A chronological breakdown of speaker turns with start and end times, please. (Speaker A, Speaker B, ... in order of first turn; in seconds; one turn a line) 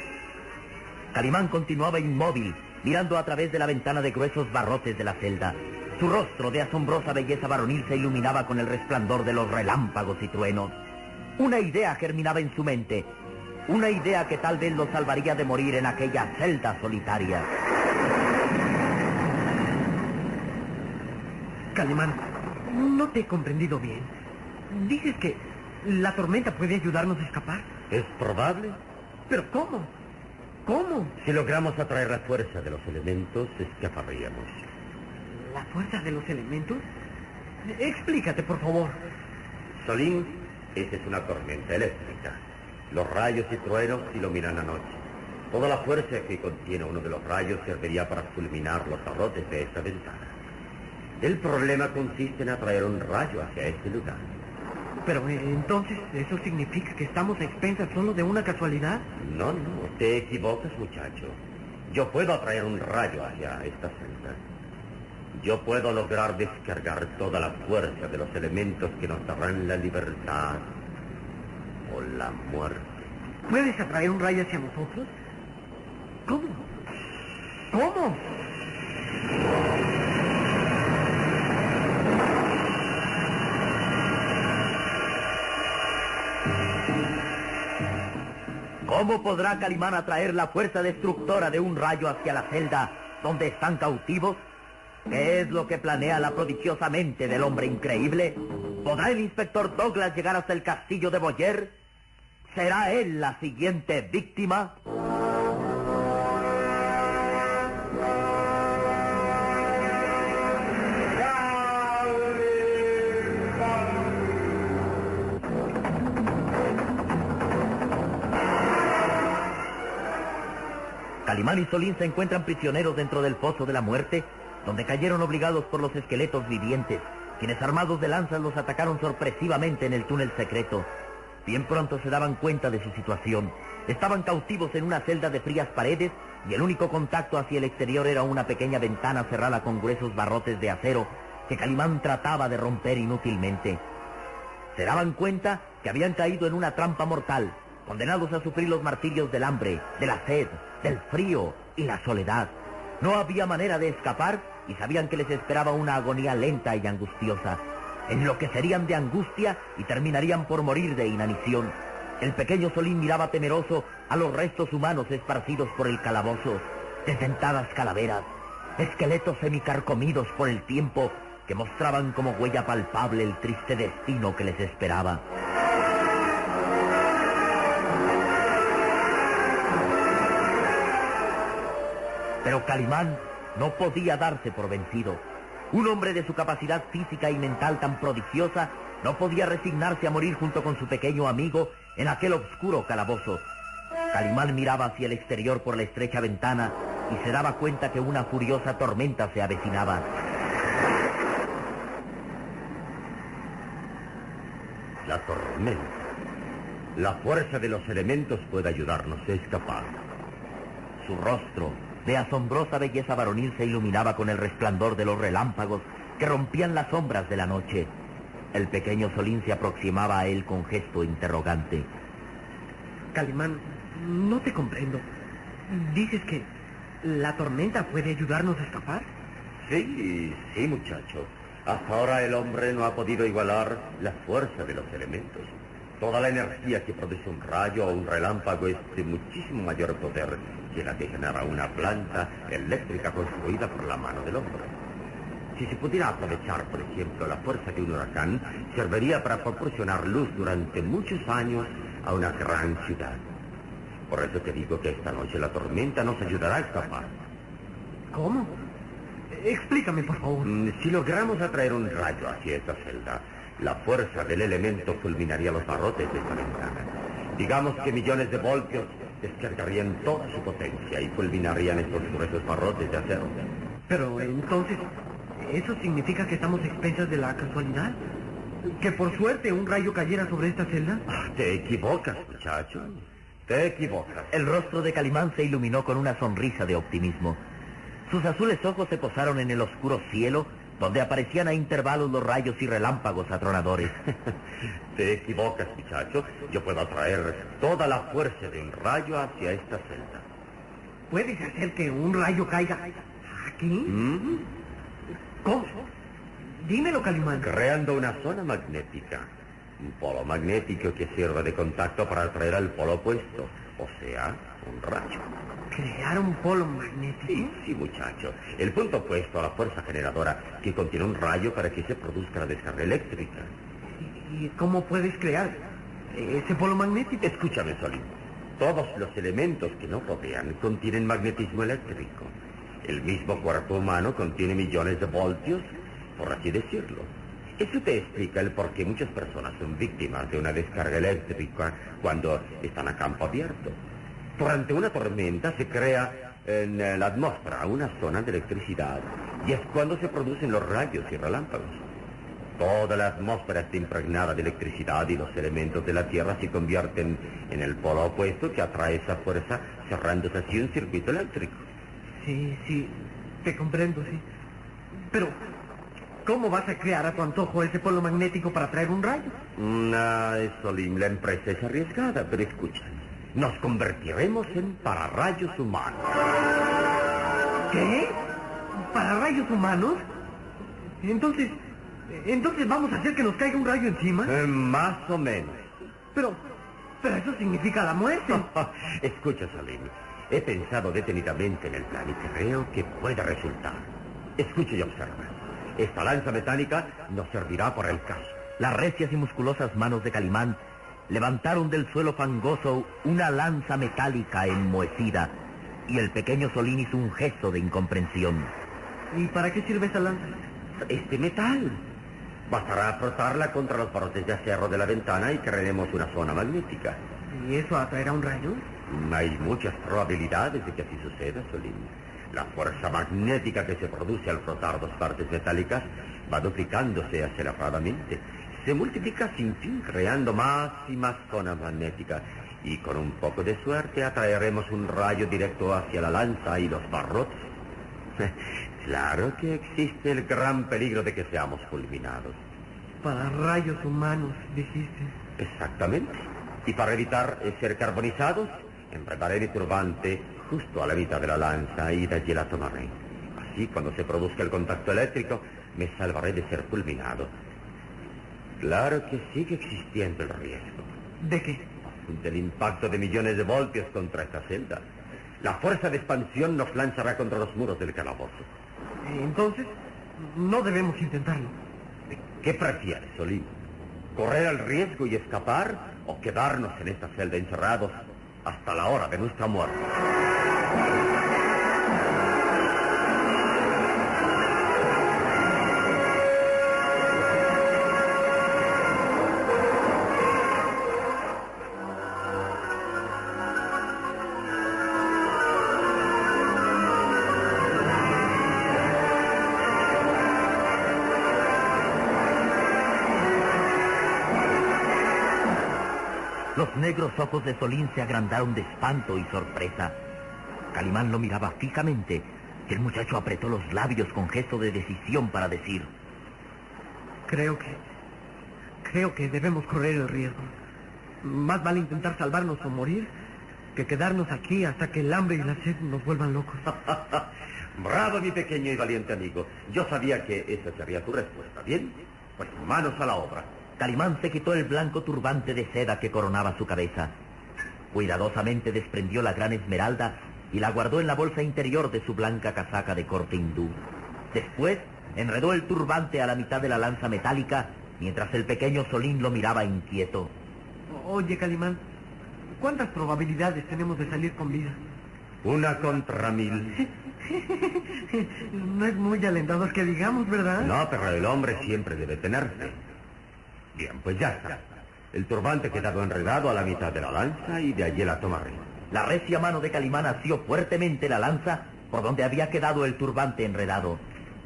Speaker A: 1.1-10.8
Speaker A: 11.4-13.1
Speaker A: 13.7-17.5
Speaker B: 21.7-24.1
Speaker B: 24.7-27.7
Speaker C: 27.9-28.8
Speaker B: 29.3-29.9
Speaker B: 30.7-31.1
Speaker C: 31.2-34.6
Speaker B: 35.3-36.9
Speaker B: 37.6-39.0
Speaker C: 39.8-50.4
Speaker C: 51.2-54.3
Speaker B: 55.0-59.0
Speaker C: 59.2-64.4
Speaker C: 65.3-70.7
Speaker C: 71.8-73.1
Speaker B: 73.5-75.1
Speaker B: 76.3-76.7
Speaker B: 77.7-78.2
Speaker A: 88.8-94.4
Speaker A: 95.1-101.8
Speaker A: 102.5-104.8
Speaker A: 121.2-130.9
Speaker A: 131.4-143.8
Speaker A: 144.7-175.2
Speaker A: 182.4-193.5
Speaker A: 194.1-200.1
Speaker C: 205.0-206.1
Speaker C: 207.0-210.0
Speaker C: 211.0-211.8
Speaker A: 211.8-217.9
Speaker A: 218.5-221.9
Speaker B: 223.1-225.1
Speaker B: 225.7-226.5
Speaker B: 227.0-229.1
Speaker C: 229.7-244.8
Speaker C: 245.6-253.3
Speaker C: 254.1-257.1
Speaker B: 258.1-258.6
Speaker B: 259.3-260.5
Speaker C: 260.4-273.4
Speaker B: 273.9-278.0
Speaker B: 278.6-281.0
Speaker C: 281.1-284.3
Speaker A: 284.3-287.4
Speaker A: 288.1-293.9
Speaker C: 294.9-300.2
Speaker B: 301.1-304.0
Speaker C: 303.9-304.5
Speaker B: 305.4-305.9
Speaker B: 306.6-307.5
Speaker C: 307.4-309.3
Speaker C: 309.8-315.3
Speaker B: 315.7-317.5
Speaker C: 317.3-323.5
Speaker B: 324.0-327.3
Speaker C: 327.2-343.8
Speaker C: 344.4-351.8
Speaker C: 352.6-361.6
Speaker B: 362.2-364.2
Speaker B: 365.0-365.4
Speaker B: 366.2-369.4
Speaker C: 369.6-376.1
Speaker B: 377.7-378.2
Speaker B: 378.8-380.1
Speaker B: 381.0-384.4
Speaker C: 384.3-385.7
Speaker B: 386.1-386.4
Speaker B: 387.0-388.5
Speaker C: 388.3-398.4
Speaker A: 398.6-408.5
Speaker B: 409.1-410.4
Speaker C: 410.8-411.8
Speaker C: 412.5-417.0
Speaker B: 417.3-418.6
Speaker C: 418.9-437.5
Speaker C: 438.2-442.4
Speaker B: 443.0-445.1
Speaker C: 445.4-457.3
Speaker C: 458.6-460.9
Speaker B: 461.2-461.7
Speaker C: 461.9-464.9
Speaker C: 465.4-468.5
Speaker B: 469.0-471.6
Speaker C: 472.4-473.5
Speaker C: 474.1-479.9
Speaker A: 506.6-510.0
Speaker A: 510.7-515.9
Speaker B: 517.3-517.8
Speaker B: 518.8-520.5
Speaker B: 521.2-523.1
Speaker B: 523.8-526.7
Speaker C: 526.9-527.2
Speaker C: 527.8-533.5
Speaker A: 533.8-537.2
Speaker A: 537.9-543.8
Speaker A: 544.3-550.3
Speaker B: 550.9-551.8
Speaker B: 552.6-554.8
Speaker C: 555.4-556.8
Speaker B: 557.3-560.8
Speaker C: 560.6-562.8
Speaker C: 563.8-568.7
Speaker A: 568.9-574.0